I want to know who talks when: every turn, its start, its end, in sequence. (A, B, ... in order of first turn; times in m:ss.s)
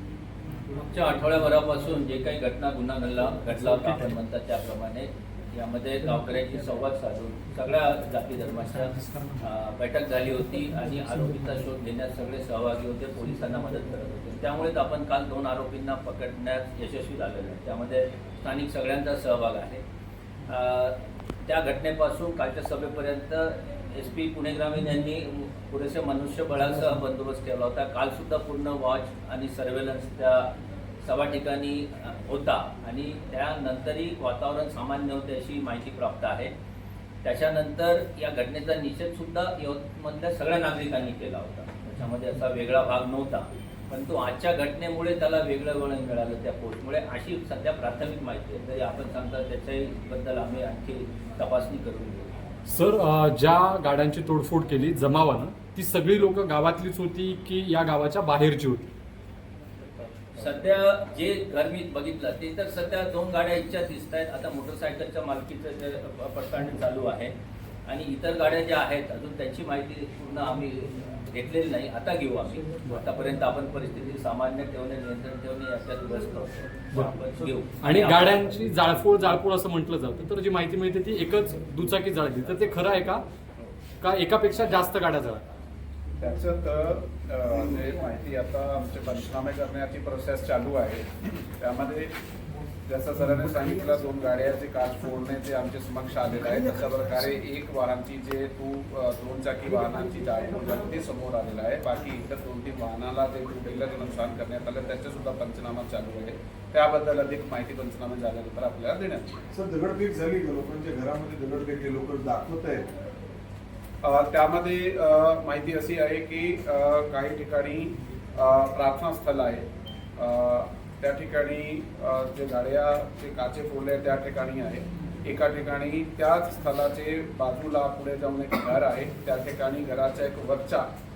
0:00.8-0:19.8 A
0:20.5-0:30.5 A
0:31.0-0:36.5 A
0:37.2-0:52.3 A
0:52.7-0:58.8 B
1:00.4-1:07.3 A
1:07.9-1:18.4 A
1:17.8-1:23.2 B
1:24.0-1:25.4 B
1:26.2-1:32.1 C
1:32.9-1:49.4 C
1:49.5-1:52.9 D
1:54.0-1:59.7 C
2:00.2-2:10.9 C